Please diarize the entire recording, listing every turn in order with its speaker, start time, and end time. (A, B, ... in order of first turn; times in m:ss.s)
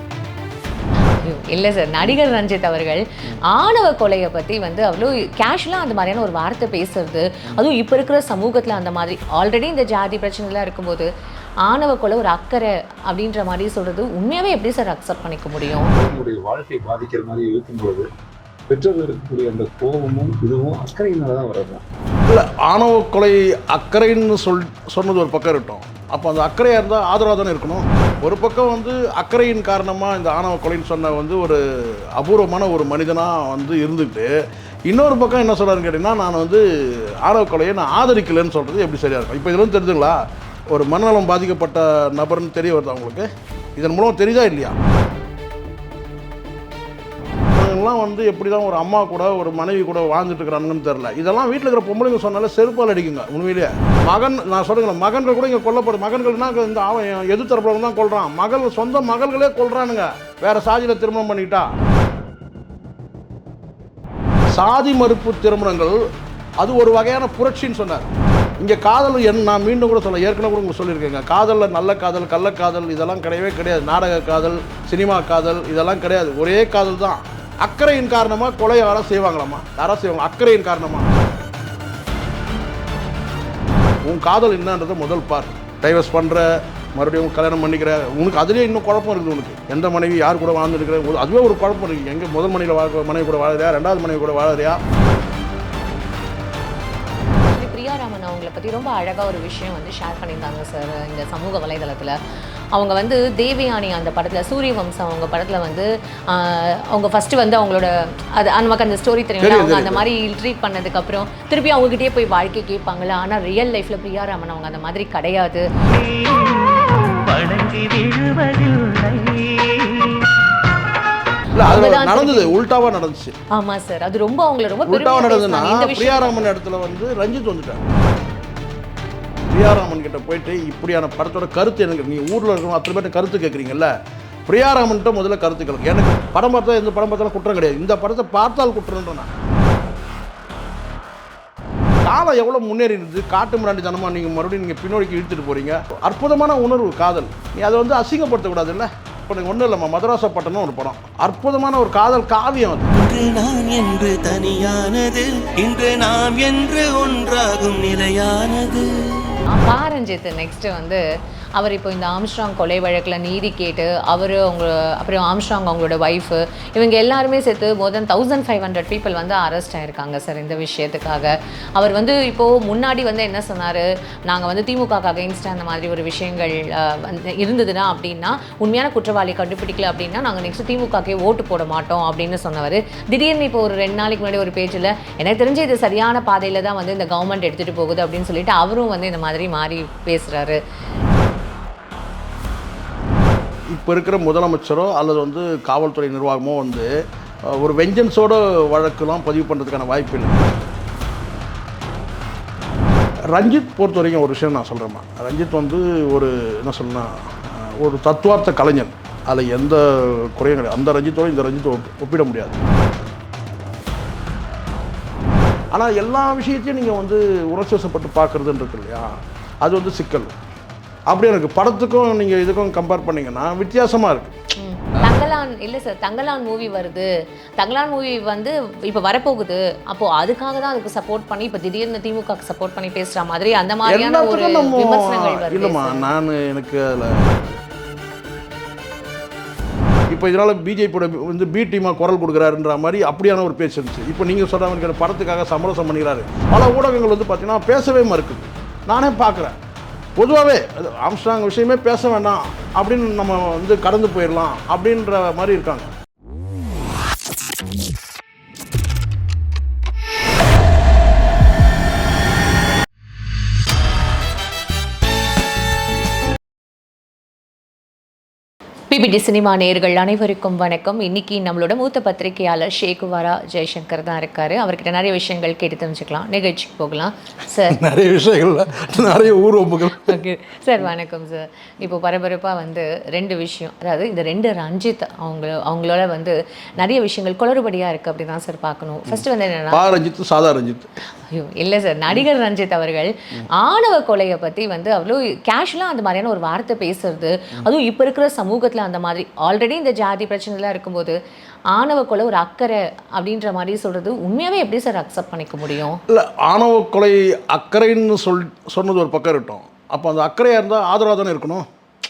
0:01.2-0:11.1 A
0:11.6-0:15.9 A
0:15.9-0:18.1 B
0:18.7-0:21.8 B
0:22.3-0:34.3 C
0:34.9-0:36.6 C
0:37.2-0:40.2 C
0:40.7-0:44.8 C
0:47.5-1:01.7 C
1:04.5-1:06.0 C
1:06.6-1:21.2 C
1:24.0-1:34.8 C
1:37.5-1:42.2 A
1:42.7-1:55.7 A
1:49.4-1:50.0 C
1:55.9-2:00.3 D
2:01.6-2:03.3 C
2:01.6-2:02.5 A
2:03.5-2:06.5 A
2:04.9-2:07.9 C
2:09.5-2:13.9 C
2:14.5-2:19.3 C
2:22.0-2:32.9 C
2:32.9-2:38.9 D
2:39.5-2:41.0 A
2:41.6-3:10.6 A
3:13.7-3:16.9 C
3:17.4-3:20.6 C
3:23.3-3:32.6 C
3:35.7-3:40.3 C
3:41.1-3:44.3 C
3:44.6-3:56.0 A
3:53.8-3:57.5 C
4:00.1-4:09.6 C
4:10.2-4:15.9 C
4:28.9-4:37.8 A
4:37.7-4:40.2 C
4:39.9-4:49.8 A
4:49.7-4:50.9 C
4:51.3-5:01.2 A
5:01.7-5:06.0 A
5:06.1-5:11.6 C